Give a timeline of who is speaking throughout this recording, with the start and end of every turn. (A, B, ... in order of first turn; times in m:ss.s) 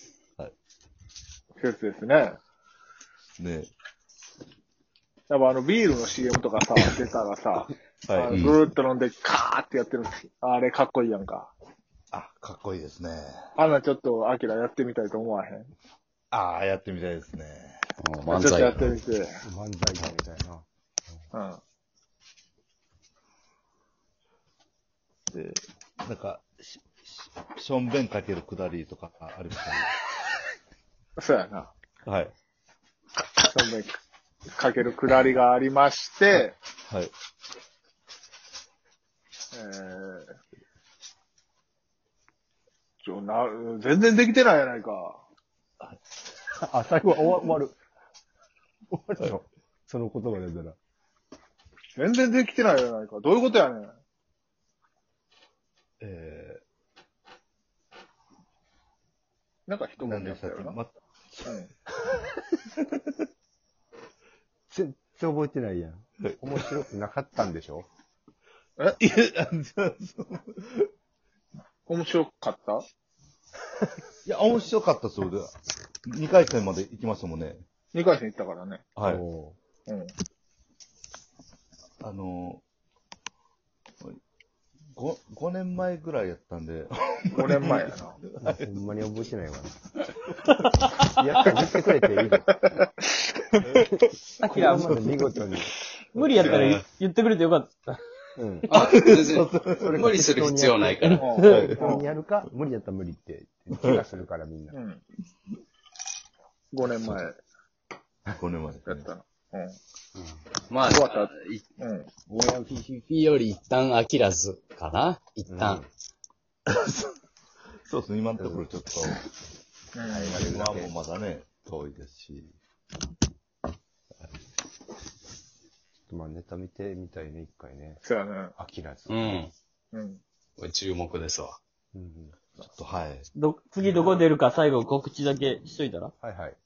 0:01.6-0:02.4 A
0:03.4-0:03.7 B
0:05.3-0:11.5 A
0:08.1-0:08.4 B
0:08.3-0:08.6 C
0:12.1-0:13.5 B
0:13.6-0:15.7 A
0:16.3-0:17.8 B
0:18.0-0:18.9 C
0:18.3-0:19.4 A
0:19.4-0:20.6 D
0:21.3-0:21.6 A
0:25.3-0:29.9 B
0:31.2-0:31.7 A
0:32.1-0:32.3 B
0:33.4-0:34.0 A
0:34.6-0:36.6 A
0:39.5-0:40.4 A
0:43.0-0:45.2 A
0:46.6-0:47.8 D
0:48.9-0:50.8 D
0:52.0-0:53.9 A
0:56.0-0:56.6 B
0:59.7-1:00.8 A
1:00.0-1:01.6 B
1:01.4-1:01.7 A
1:02.8-1:03.2 B
1:04.7-1:07.9 D
1:09.0-1:10.9 B
1:11.9-1:12.8 A
1:14.2-1:15.5 B
1:16.0-1:17.6 B
1:17.9-1:18.9 A
1:19.0-1:19.2 B
1:19.0-1:19.6 D
1:19.9-1:20.1 A
1:22.0-1:22.6 B
1:25.0-1:28.7 B
1:27.3-1:28.2 A
1:28.4-1:29.8 D
1:31.1-1:32.5 D
1:32.7-1:33.9 A
1:33.8-1:36.4 D
1:34.4-1:35.0 E
1:36.1-1:38.0 E
1:36.4-1:36.8 C
1:38.4-1:38.7 D
1:38.7-1:41.3 C
1:38.7-1:40.0 B
1:39.7-1:44.8 D
1:41.2-1:42.1 A
1:41.4-1:41.7 E
1:41.4-1:42.0 B
1:44.7-1:45.0 A
1:46.7-1:47.4 A
1:48.4-1:49.1 B
1:48.8-1:49.8 A
1:50.2-1:51.6 C
1:50.8-1:52.1 A
1:52.3-1:55.8 C
1:55.5-1:55.9 D
1:56.7-1:57.1 B
1:57.9-1:59.2 B
1:58.4-1:58.7 D
1:59.9-2:00.4 A
2:00.1-2:00.9 D
2:00.3-2:02.6 B
2:06.1-2:08.0 D
2:08.0-2:08.5 A
2:08.6-2:09.2 D
2:09.1-2:09.5 C
2:09.9-2:10.2 A
2:10.6-2:11.6 C
2:11.9-2:12.4 D
2:12.6-2:13.3 B
2:13.3-2:16.1 E
2:16.2-2:16.6 D